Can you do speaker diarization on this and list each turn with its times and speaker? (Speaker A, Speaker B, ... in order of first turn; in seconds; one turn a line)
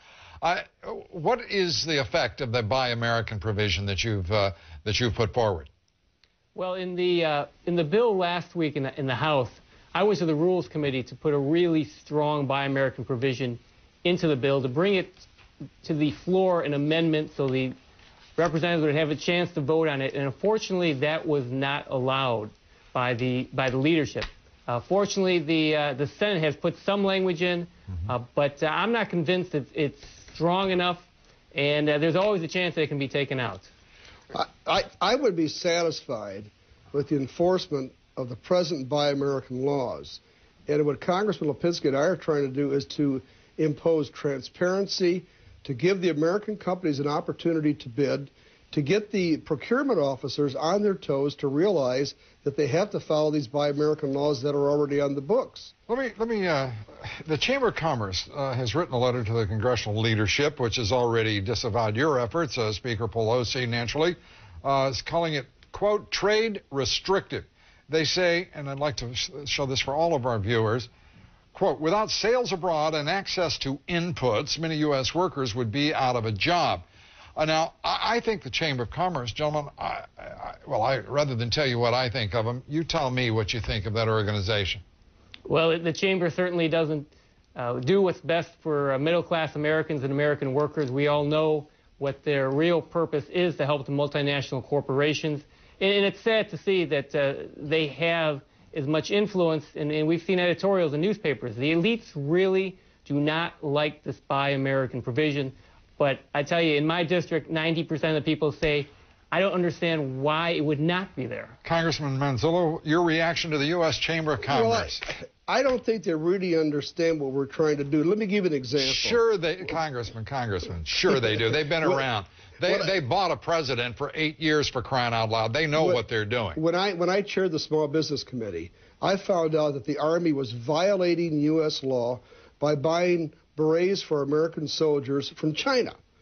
Speaker A: 0.4-5.7
Speaker B: 6.5-15.2
Speaker B: 15.8-17.8
Speaker B: 18.4-33.7
Speaker C: 34.3-55.7
Speaker A: 55.9-70.9
Speaker A: 71.5-76.8
Speaker A: 77.4-84.8
Speaker B: 85.5-111.6
Speaker A: 111.6-115.0
Speaker C: 114.4-119.2
Speaker A: 118.8-126.6
Speaker C: 121.1-122.0
Speaker C: 122.7-122.9
Speaker C: 125.8-126.0
Speaker C: 126.5-136.0